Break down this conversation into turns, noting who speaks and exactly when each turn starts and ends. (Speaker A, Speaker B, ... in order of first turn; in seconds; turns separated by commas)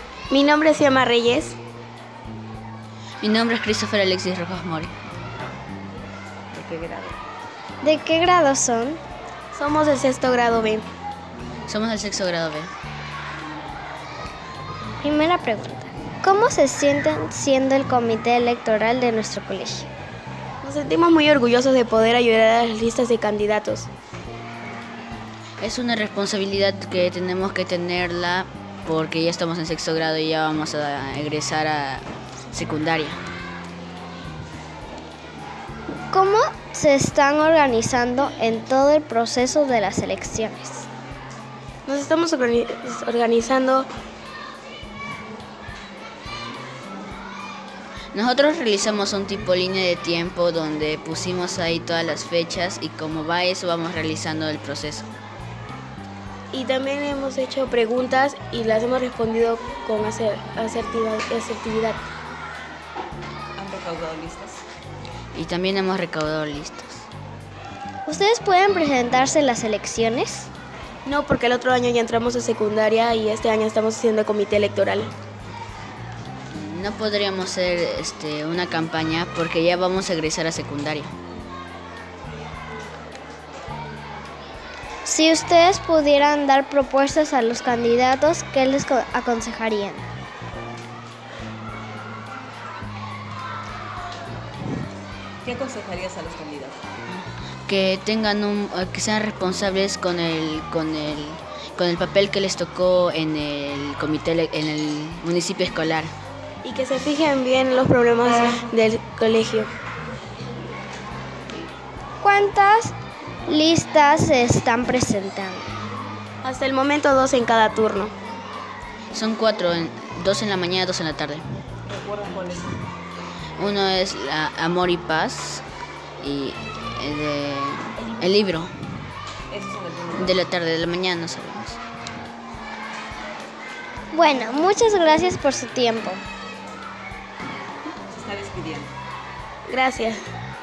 Speaker A: 0.3-1.6, Speaker B: 3.2-4.9, Speaker C: 6.5-7.1, Speaker D: 7.8-9.0, Speaker A: 9.5-10.9, Speaker B: 11.7-12.7, Speaker D: 15.0-19.9, Speaker A: 20.6-23.9, Speaker B: 25.6-33.2, Speaker D: 36.1-40.9, Speaker A: 41.9-43.9, Speaker B: 48.1-55.1, Speaker A: 56.5-62.0, Speaker C: 63.6-64.6, Speaker B: 65.3-67.1, Speaker D: 68.1-70.5, Speaker A: 71.0-75.1, Speaker B: 76.5-81.1, Speaker D: 85.0-90.0, Speaker C: 95.4-96.8, Speaker B: 97.1-106.1, Speaker A: 106.6-109.7, Speaker D: 112.2-113.0, Speaker D: 113.5-115.7, Speaker A: 116.4-118.1, Speaker B: 119.1-121.4, Speaker C: 121.9-122.8, Speaker B: 123.6-125.7, Speaker B: 126.2-128.7, Speaker C: 129.5-130.4, Speaker B: 130.2-131.8, Speaker D: 134.1-136.2, Speaker C: 138.1-138.9, Speaker A: 139.7-140.2